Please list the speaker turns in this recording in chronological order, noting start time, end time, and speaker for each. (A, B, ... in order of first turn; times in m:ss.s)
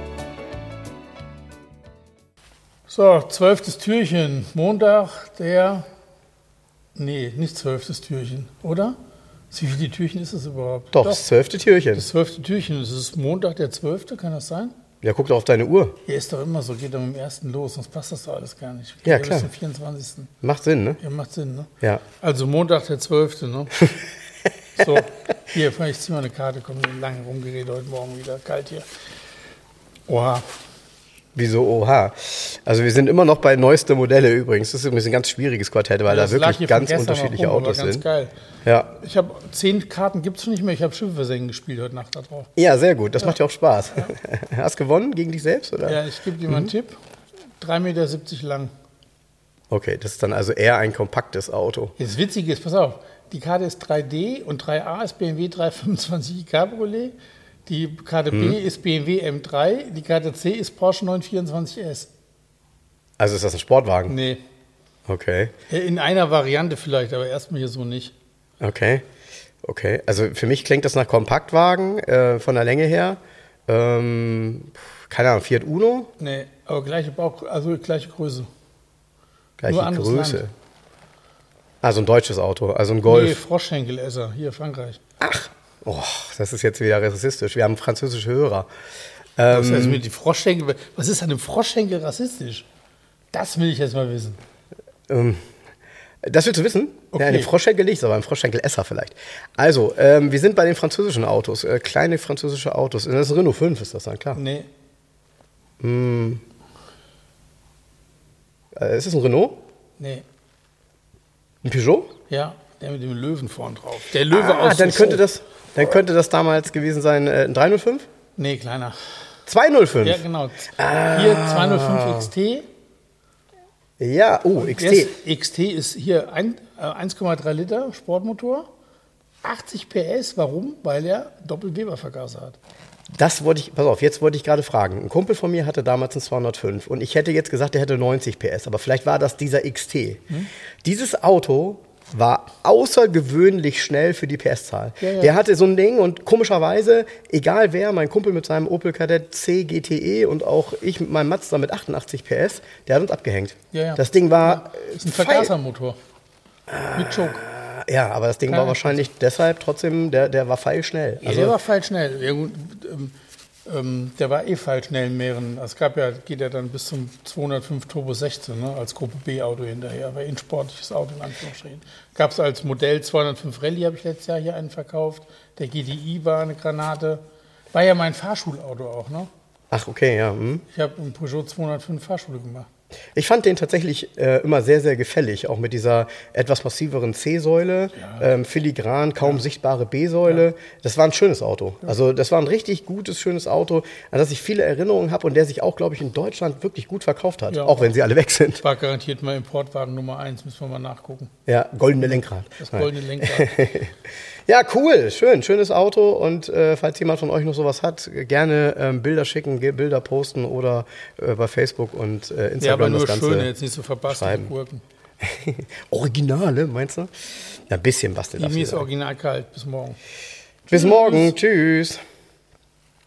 0:02.9-0:05.8 A
0:06.9-0:09.0 A
0:09.5-0:11.3 A
0:10.9-0:12.1 B
0:11.9-0:14.7 A
0:15.0-0:16.0 B
0:16.0-0:20.3 A
0:19.0-0:19.5 B
0:20.4-0:21.0 B
0:21.0-0:23.9 A
0:24.7-0:28.8 A
0:30.1-0:30.4 A
0:31.3-0:38.0 B
0:36.1-0:38.3 A
0:38.6-0:38.9 B
0:39.0-0:42.5 A
0:42.6-0:46.7 B
0:45.8-0:47.0 A
0:47.6-0:48.7 A
0:49.7-0:51.9 B
0:52.0-0:57.1 A
0:57.6-1:02.1 A
0:58.3-0:58.6 B
1:03.2-1:04.1 B
1:04.1-1:04.4 A
1:05.1-1:05.5 B
1:05.7-1:08.1 A
1:08.6-1:09.0 B
1:09.6-1:16.1 B
1:16.2-1:18.5 A
1:19.6-1:20.5 B
1:19.7-1:20.4 A
1:21.8-1:23.4 B
1:23.0-1:25.0 A
1:25.2-1:28.7 B
1:29.4-1:30.0 B
1:29.5-1:32.6 A
1:33.3-1:34.4 A
1:35.1-1:35.4 B
1:36.2-1:44.4 B
1:37.1-1:37.5 A
1:44.3-1:44.7 A
1:45.8-1:46.4 B
1:48.7-1:49.6 B
1:50.0-1:50.2 A
1:51.6-1:52.1 B
1:52.3-1:55.2 A
1:54.3-1:58.0 B
1:58.4-1:59.0 A
1:59.5-2:00.2 B
2:00.0-2:02.6 A
2:00.8-2:02.3 B
2:04.0-2:05.1 B
2:04.6-2:08.7 A
2:09.4-2:12.6 A
2:13.1-2:20.2 B
2:20.8-2:35.5 B
2:25.0-2:25.4 A
2:33.7-2:36.0 A
2:36.7-2:41.6 B
2:36.9-2:37.4 A
2:38.5-2:39.1 A
2:41.2-2:57.2 A
2:57.7-2:59.3 A
2:59.7-3:00.6 B
3:00.7-3:02.7 A
3:03.1-3:18.6 B
3:07.9-3:08.3 A
3:17.5-3:17.9 A
3:18.6-3:21.3 A
3:21.5-3:23.9 B
3:22.6-3:23.6 A
3:24.5-3:33.5 B
3:32.6-3:34.8 A
3:34.1-3:34.5 B
3:35.2-3:37.1 B
3:37.7-3:38.8 B
3:38.4-3:40.0 A
3:40.7-3:41.4 A
3:40.7-3:42.0 B